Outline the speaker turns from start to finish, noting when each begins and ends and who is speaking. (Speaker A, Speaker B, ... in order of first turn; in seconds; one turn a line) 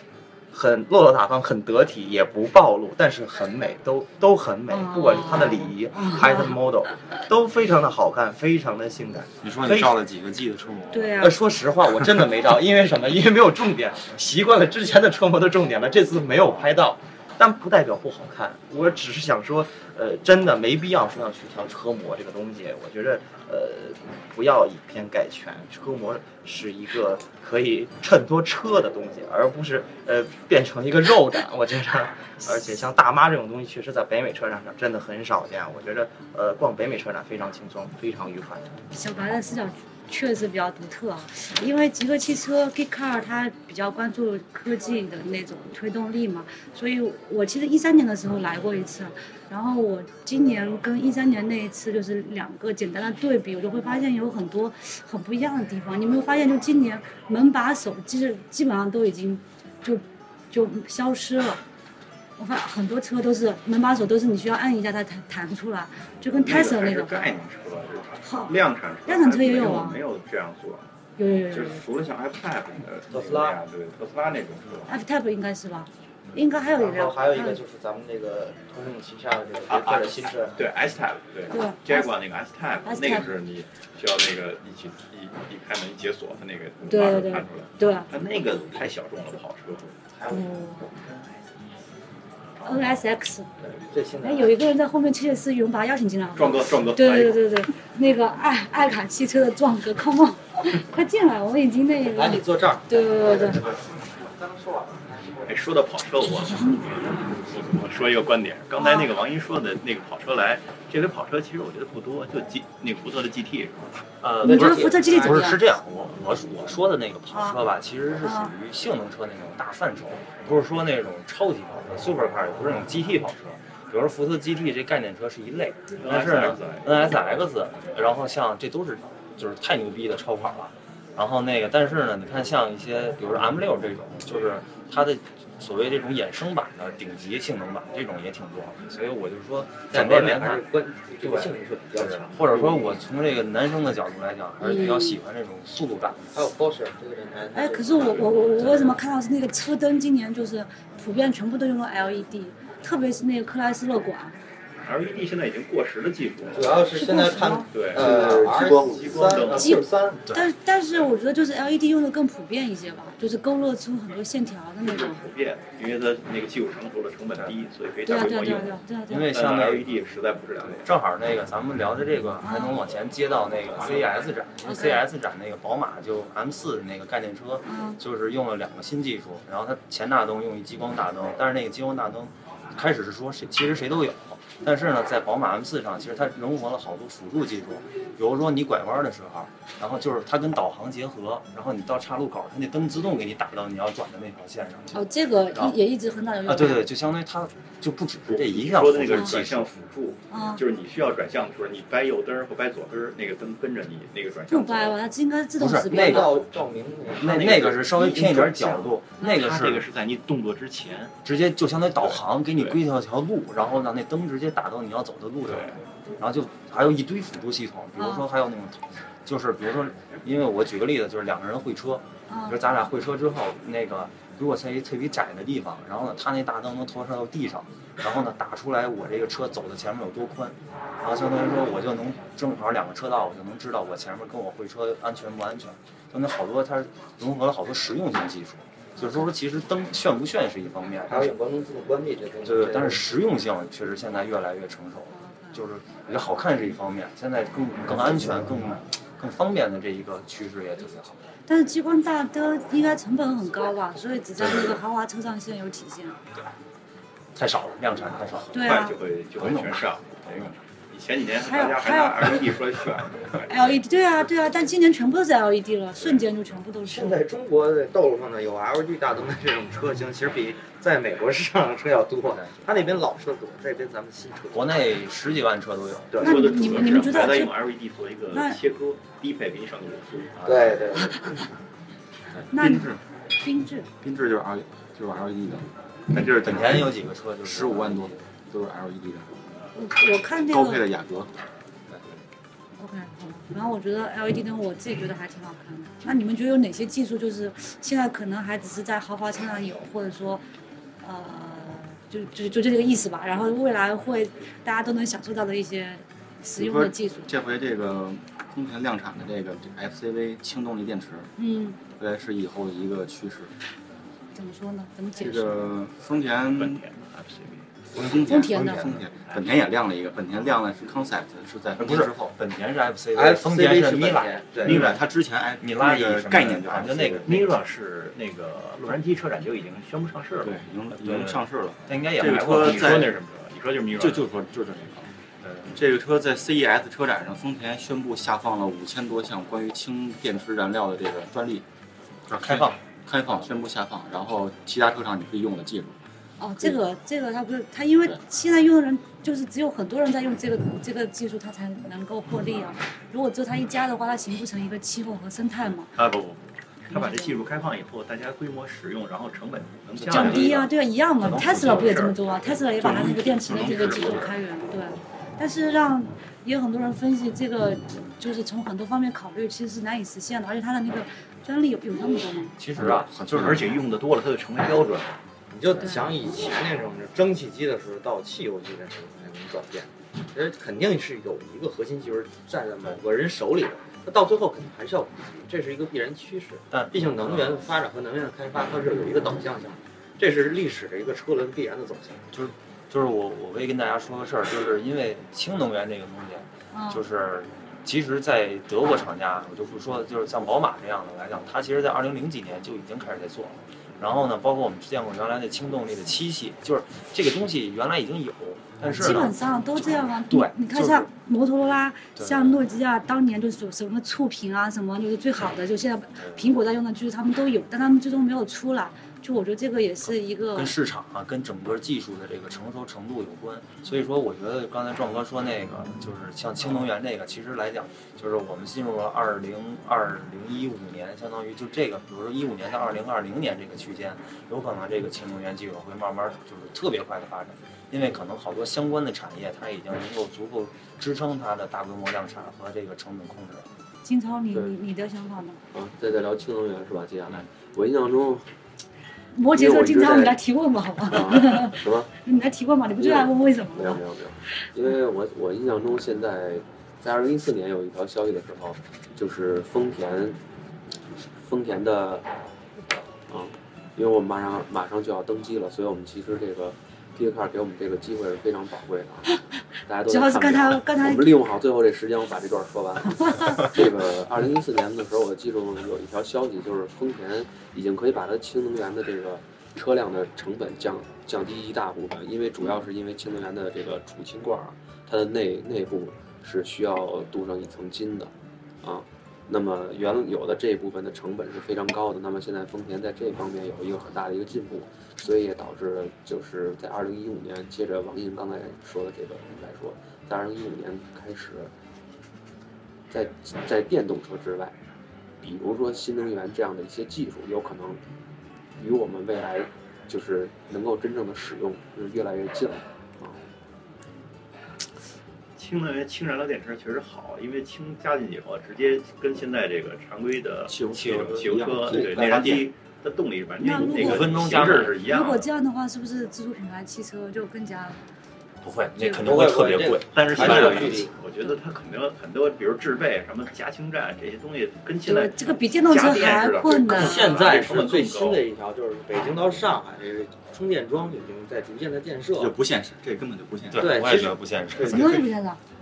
Speaker A: 0.5-10.0
Speaker B: 4.7-6.6
Speaker C: 9.4-11.3
Speaker B: 10.9-11.3
Speaker A: 11.2-38.7
Speaker C: 16.4-16.7
Speaker B: 38.9-61.6
Speaker B: 62.4-67.2
Speaker D: 66.3-70.9
Speaker B: 68.2-70.0
Speaker B: 71.2-71.8
Speaker D: 71.5-74.9
Speaker A: 73.1-73.6
Speaker B: 74.9-77.6
Speaker A: 76.7-80.7
Speaker D: 79.7-90.0
Speaker B: 81.5-82.1
Speaker B: 82.8-83.3
Speaker B: 86.9-88.1
Speaker A: 90.1-91.1
Speaker B: 90.3-90.9
Speaker D: 92.6-93.0
Speaker B: 92.6-93.5
Speaker A: 93.6-94.5
Speaker B: 94.2-103.6
Speaker D: 96.3-97.4
Speaker A: 102.1-105.7
Speaker D: 105.5-113.9
Speaker B: 106.5-106.8
Speaker B: 108.8-109.1
Speaker C: 114.2-140.6
Speaker B: 114.4-115.6
Speaker A: 114.5-115.3
Speaker B: 117.3-117.6
Speaker B: 118.2-118.5
Speaker D: 126.0-127.0
Speaker A: 139.9-143.0
Speaker C: 141.2-146.4
Speaker B: 144.6-145.2
Speaker A: 146.3-148.3
Speaker B: 147.5-154.3
Speaker D: 148.0-148.8
Speaker D: 154.8-156.8
Speaker A: 156.5-160.3
Speaker B: 156.9-157.7
Speaker D: 157.7-159.8
Speaker E: 157.9-159.5
Speaker B: 159.5-165.2
Speaker D: 164.8-170.9
Speaker B: 168.0-169.3
Speaker C: 169.1-169.9
Speaker C: 170.8-195.8
Speaker B: 172.4-172.8
Speaker D: 173.8-174.2
Speaker B: 174.6-175.0
Speaker B: 177.6-178.0
Speaker B: 194.9-196.9
Speaker C: 196.4-199.7
Speaker D: 198.3-205.0
Speaker B: 200.3-200.6
Speaker B: 204.5-206.4
Speaker C: 205.6-206.3
Speaker A: 205.9-208.2
Speaker C: 207.2-209.8
Speaker D: 207.9-211.2
Speaker C: 211.2-241.3
Speaker D: 212.0-212.8
Speaker D: 215.5-215.7
Speaker B: 218.0-218.3
Speaker B: 222.3-222.6
Speaker B: 238.9-239.3
Speaker A: 241.1-243.1
Speaker C: 242.4-251.2
Speaker B: 245.1-245.6
Speaker B: 251.5-256.2
Speaker C: 254.4-254.8
Speaker C: 257.4-258.8
Speaker B: 258.5-259.0
Speaker D: 258.6-263.7
Speaker C: 259.4-259.8
Speaker B: 261.4-262.4
Speaker B: 263.5-267.2
Speaker D: 265.9-266.2
Speaker A: 266.9-274.8
Speaker C: 274.5-276.7
Speaker A: 276.1-276.5
Speaker D: 276.2-280.6
Speaker B: 276.2-277.5
Speaker B: 278.3-278.6
Speaker A: 280.4-281.3
Speaker F: 282.4-283.0
Speaker B: 282.5-283.9
Speaker F: 284.0-289.4
Speaker C: 286.4-288.2
Speaker B: 289.7-290.8
Speaker F: 290.5-291.3
Speaker B: 292.8-300.4
Speaker B: 301.0-307.3
Speaker F: 306.6-311.3
Speaker B: 311.4-311.8
Speaker F: 312.0-313.5
Speaker B: 314.3-315.6
Speaker F: 315.2-316.8
Speaker D: 316.5-317.7
Speaker F: 317.9-322.4
Speaker B: 318.2-318.8
Speaker D: 318.7-319.6
Speaker C: 321.8-324.9
Speaker A: 323.1-324.9
Speaker F: 324.6-327.5
Speaker D: 324.6-325.0
Speaker C: 325.6-327.4
Speaker D: 327.2-330.6
Speaker F: 330.4-333.1
Speaker C: 330.9-333.1
Speaker D: 332.2-334.3
Speaker F: 334.0-335.1
Speaker C: 335.4-335.8
Speaker F: 335.7-341.6
Speaker C: 342.3-342.8
Speaker F: 342.4-346.0
Speaker B: 346.4-355.9
Speaker D: 355.7-360.7
Speaker B: 356.9-357.5
Speaker B: 360.1-372.5
Speaker F: 361.2-362.0
Speaker D: 361.2-362.2
Speaker F: 362.8-364.4
Speaker D: 363.6-364.1
Speaker C: 372.6-373.6
Speaker F: 372.8-373.7
Speaker D: 373.4-375.2
Speaker A: 375.5-392.2
Speaker B: 375.7-376.2
Speaker C: 386.7-387.6
Speaker C: 392.3-411.1
Speaker B: 396.7-397.0
Speaker B: 408.9-420.7
Speaker C: 412.1-412.6
Speaker C: 416.1-416.5
Speaker C: 420.1-443.7
Speaker B: 444.0-445.6
Speaker E: 445.7-448.5
Speaker B: 449.3-454.0
Speaker E: 449.5-450.4
Speaker E: 451.1-452.1
Speaker E: 453.0-460.4
Speaker E: 461.2-462.3
Speaker E: 463.3-469.3
Speaker B: 469.3-471.4
Speaker E: 469.9-488.3
Speaker B: 473.1-473.9
Speaker E: 488.8-501.7
Speaker E: 503.1-504.7
Speaker E: 505.4-508.0
Speaker E: 508.8-513.4
Speaker D: 515.6-525.5
Speaker F: 520.7-522.6
Speaker C: 520.9-521.4
Speaker A: 522.0-522.2
Speaker B: 523.6-524.3
Speaker F: 523.8-524.4
Speaker C: 524.0-525.0
Speaker B: 524.8-528.0
Speaker C: 528.6-530.9
Speaker A: 529.0-531.1
Speaker D: 530.1-538.4
Speaker B: 530.7-531.5
Speaker B: 535.0-537.5
Speaker A: 536.9-542.5
Speaker F: 542.3-544.0
Speaker C: 543.7-545.1
Speaker A: 543.8-545.2
Speaker B: 544.8-545.6